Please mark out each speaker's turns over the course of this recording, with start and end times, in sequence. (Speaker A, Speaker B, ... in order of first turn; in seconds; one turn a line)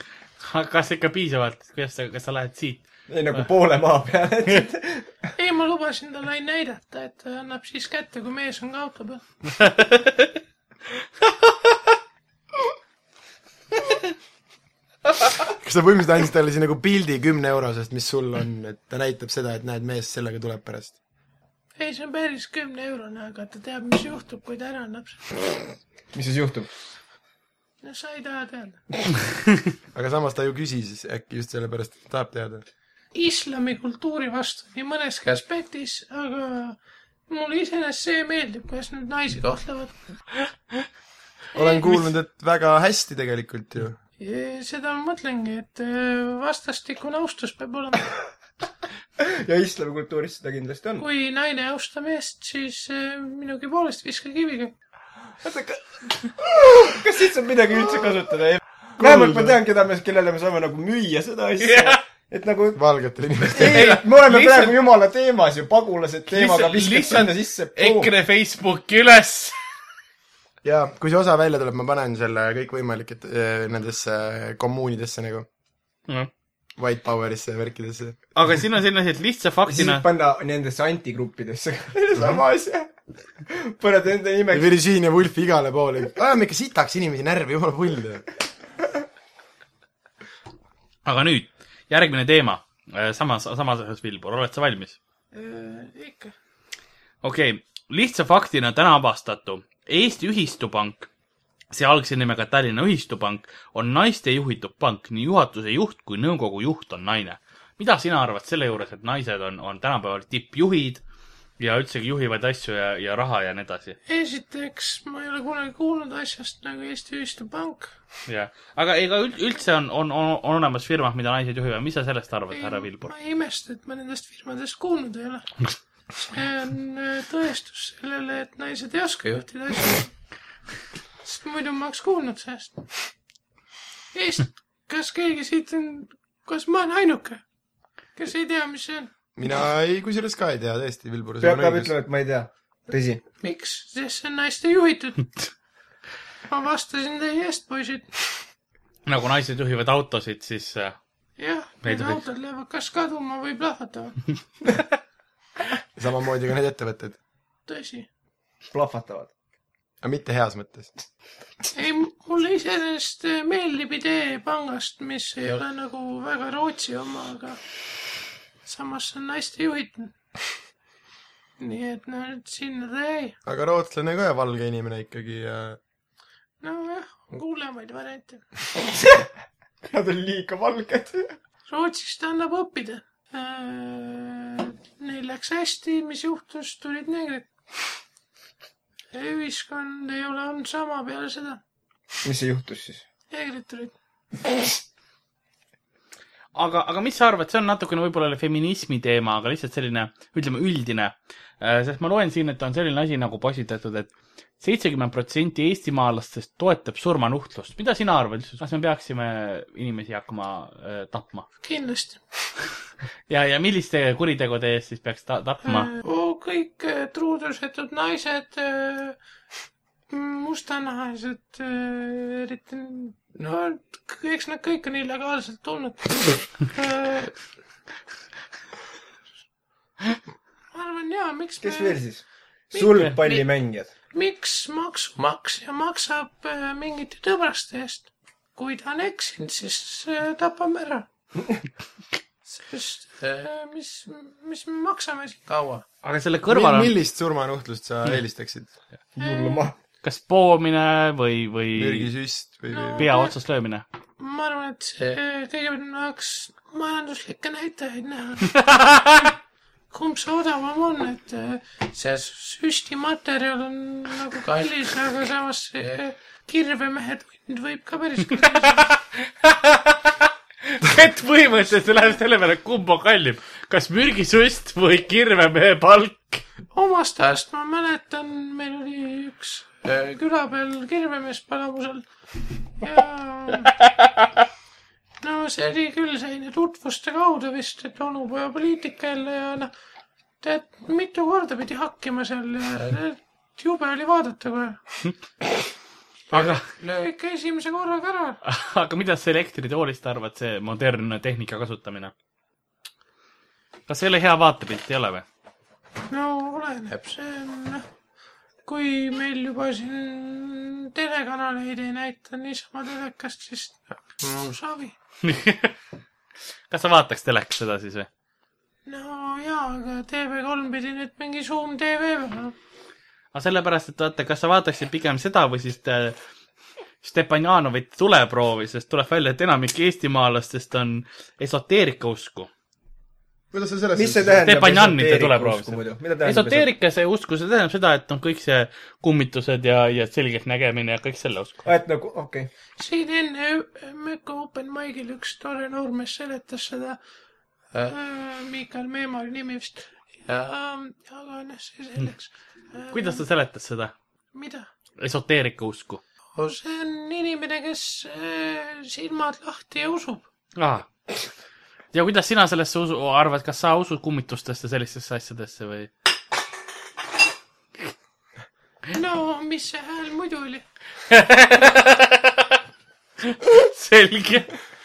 Speaker A: 0.4-3.4
Speaker B: 3.1-5.1
Speaker C: 5.4-9.2
Speaker A: 9.6-10.3
Speaker D: 15.5-20.9
Speaker C: 21.8-25.2
Speaker B: 26.1-26.7
Speaker C: 27.8-28.8
Speaker D: 29.9-32.6
Speaker C: 33.1-40.0
Speaker D: 41.5-44.0
Speaker C: 41.5-41.8
Speaker C: 44.2-48.1
Speaker B: 49.2-51.1
Speaker C: 51.0-54.7
Speaker B: 55.4-62.8
Speaker D: 59.0-59.5
Speaker A: 61.6-62.0
Speaker D: 62.7-64.0
Speaker B: 63.5-68.1
Speaker A: 63.6-64.8
Speaker A: 66.3-69.5
Speaker D: 70.6-75.5
Speaker D: 76.8-78.2
Speaker A: 78.3-80.0
Speaker B: 79.7-82.9
Speaker B: 83.4-84.7
Speaker D: 84.5-88.2
Speaker A: 91.0-95.0
Speaker C: 95.3-96.3
Speaker A: 97.2-101.1
Speaker A: 101.7-111.0
Speaker A: 111.6-114.0
Speaker C: 114.1-117.9
Speaker A: 118.2-123.1
Speaker C: 122.5-130.1
Speaker C: 131.2-133.1
Speaker C: 134.1-137.4
Speaker C: 138.1-139.1
Speaker D: 139.4-141.9
Speaker B: 141.4-143.2
Speaker C: 143.4-145.3
Speaker C: 146.5-148.3
Speaker A: 149.1-151.0
Speaker C: 151.4-154.2
Speaker A: 151.8-152.2
Speaker D: 156.0-157.2
Speaker C: 157.7-158.1
Speaker B: 158.7-159.3
Speaker D: 160.0-160.9
Speaker C: 161.7-167.6
Speaker C: 168.6-170.1
Speaker C: 171.6-173.3
Speaker D: 173.4-175.8
Speaker C: 176.6-178.4
Speaker B: 178.9-179.2
Speaker B: 179.8-181.4
Speaker C: 181.7-187.5
Speaker C: 189.1-191.6
Speaker B: 192.2-193.0
Speaker C: 193.3-193.9
Speaker A: 196.5-211.5
Speaker C: 211.6-212.2
Speaker A: 213.3-215.9
Speaker C: 215.6-219.2
Speaker C: 220.1-227.3
Speaker C: 230.7-232.0
Speaker B: 231.6-233.9
Speaker C: 232.7-233.5
Speaker C: 234.1-241.1
Speaker C: 242.5-245.8
Speaker A: 246.0-246.9
Speaker D: 246.5-248.7
Speaker B: 249.1-249.7
Speaker C: 249.2-249.7
Speaker A: 250.0-252.1
Speaker D: 251.8-253.1
Speaker C: 252.7-253.3
Speaker A: 253.0-253.8
Speaker C: 254.2-259.3
Speaker A: 258.6-259.3
Speaker C: 259.9-268.9
Speaker A: 268.8-276.4
Speaker C: 276.7-282.1
Speaker C: 282.7-283.7
Speaker C: 285.2-289.7
Speaker C: 290.4-294.8
Speaker C: 296.3-298.4
Speaker A: 296.3-296.7
Speaker A: 298.4-302.1
Speaker A: 303.9-305.2
Speaker C: 306.1-307.9
Speaker C: 308.6-314.9
Speaker A: 315.2-315.7
Speaker A: 316.7-318.1
Speaker C: 318.9-322.5
Speaker A: 323.3-326.2
Speaker A: 327.0-332.5
Speaker D: 333.5-334.6
Speaker B: 333.9-336.7
Speaker A: 334.4-341.6
Speaker B: 341.6-342.5
Speaker C: 342.8-347.0
Speaker C: 347.7-353.2
Speaker A: 352.9-353.9
Speaker C: 354.3-354.7
Speaker A: 355.0-356.0
Speaker C: 356.4-360.2
Speaker A: 360.6-360.9
Speaker A: 361.9-365.9
Speaker C: 368.9-370.6
Speaker A: 371.1-372.6
Speaker A: 373.2-374.5